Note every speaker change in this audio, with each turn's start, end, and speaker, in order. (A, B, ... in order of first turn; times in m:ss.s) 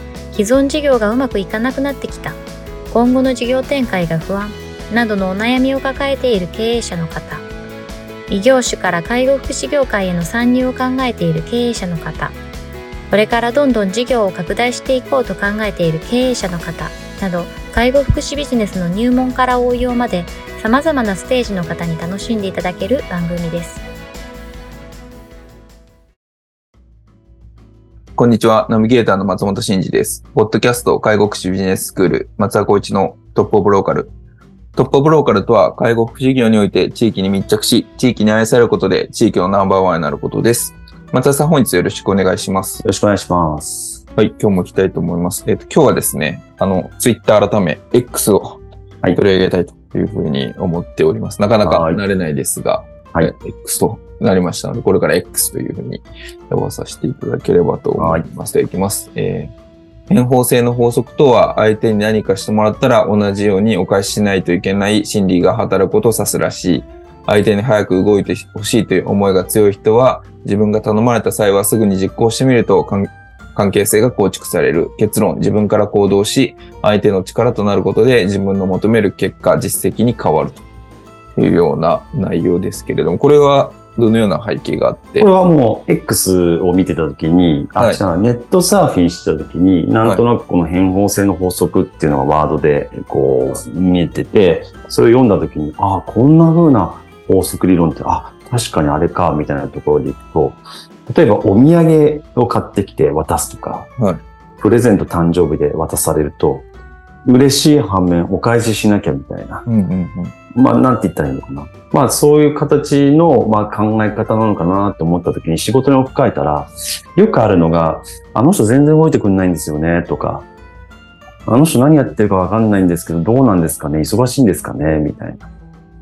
0:00.3-0:07.4 A
0:08.3-0:12.4 A
0:13.1-0:23.8 A
0:28.2-0:34.1 B
0:34.7-0:42.8 B
0:42.8-0:44.0 C
0:44.1-0:48.6 B
0:49.1-0:59.5 B
0:51.6-0:52.0 C
0:58.0-0:58.2 C
1:00.1-1:20.6 B
1:21.4-1:25.3 B
1:25.2-1:43.9 C
1:44.6-1:46.7 C
1:47.2-1:49.6 C
1:49.6-1:50.3 B
1:50.5-2:00.5 C
2:01.4-2:05.5 C